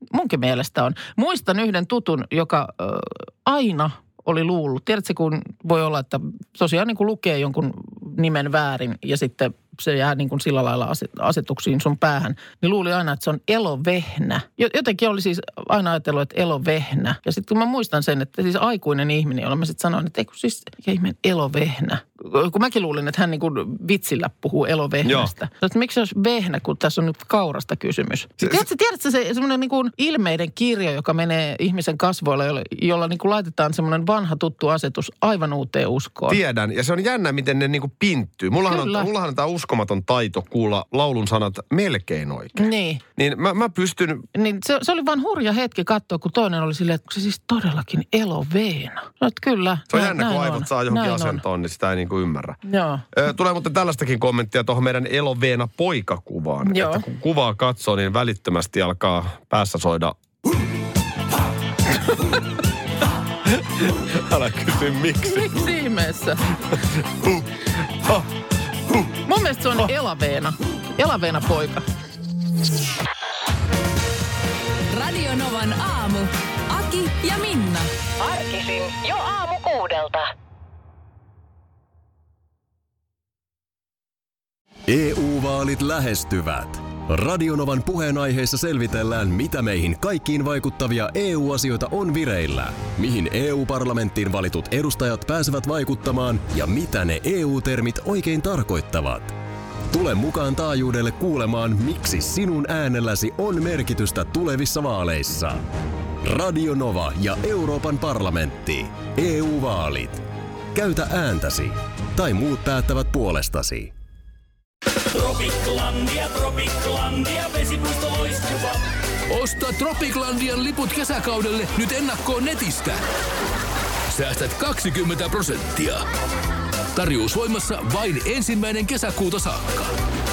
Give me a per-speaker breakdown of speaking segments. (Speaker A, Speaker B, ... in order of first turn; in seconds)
Speaker A: 0.1-36.4, 38.7-39.1, 42.6-43.0, 44.3-51.4, 52.6-53.1, 56.6-57.0, 65.2-66.5, 69.2-71.8
Speaker B: 25.0-25.3, 28.4-28.7, 36.3-44.3, 49.9-52.6, 53.1-60.2, 63.5-65.7, 66.7-68.3
Speaker C: 74.9-77.9
Speaker D: 78.2-80.3
Speaker E: 84.9-99.3, 99.9-105.6, 106.2-110.2, 110.7-113.9
Speaker F: 115.1-123.0, 124.1-126.0, 127.0-130.0